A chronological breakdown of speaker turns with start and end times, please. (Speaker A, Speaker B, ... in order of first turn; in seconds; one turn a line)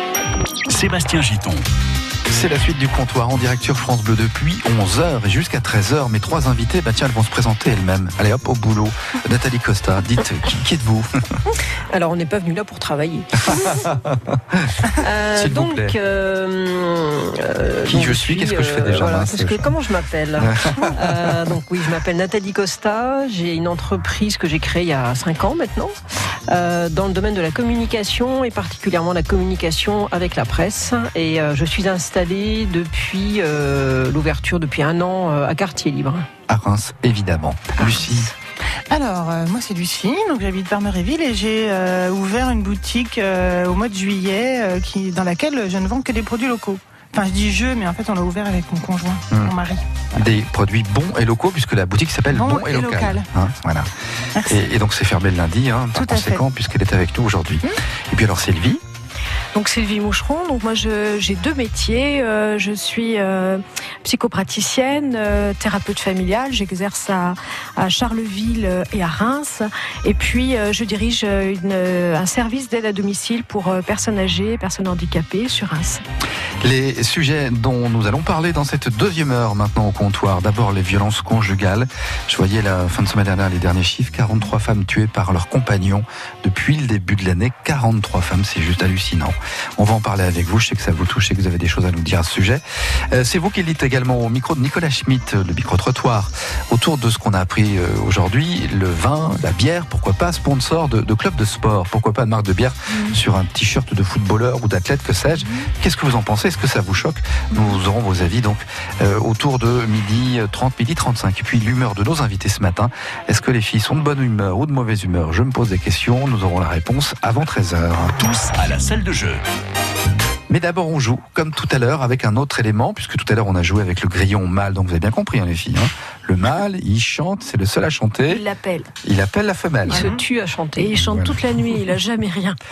Speaker A: 0.7-1.6
Speaker B: 2.3-11.4
Speaker C: 11.9-13.8
Speaker B: 13.5-15.9
Speaker C: 15.0-25.9
Speaker B: 17.9-19.8
Speaker B: 20.4-21.3
Speaker C: 26.5-36.3
Speaker B: 36.5-38.3
Speaker D: 38.9-49.8
Speaker B: 50.1-53.9
Speaker D: 52.3-53.2
Speaker D: 54.4-54.6
Speaker B: 54.5-58.8
Speaker D: 56.0-56.4
Speaker E: 59.5-76.0
Speaker B: 76.6-118.2
Speaker A: 118.2-119.4
Speaker B: 120.5-128.4
Speaker E: 128.3-128.9
Speaker B: 129.0-130.1
Speaker C: 129.9-130.9
Speaker D: 129.9-130.2
Speaker E: 130.8-132.6
Speaker B: 130.9-131.4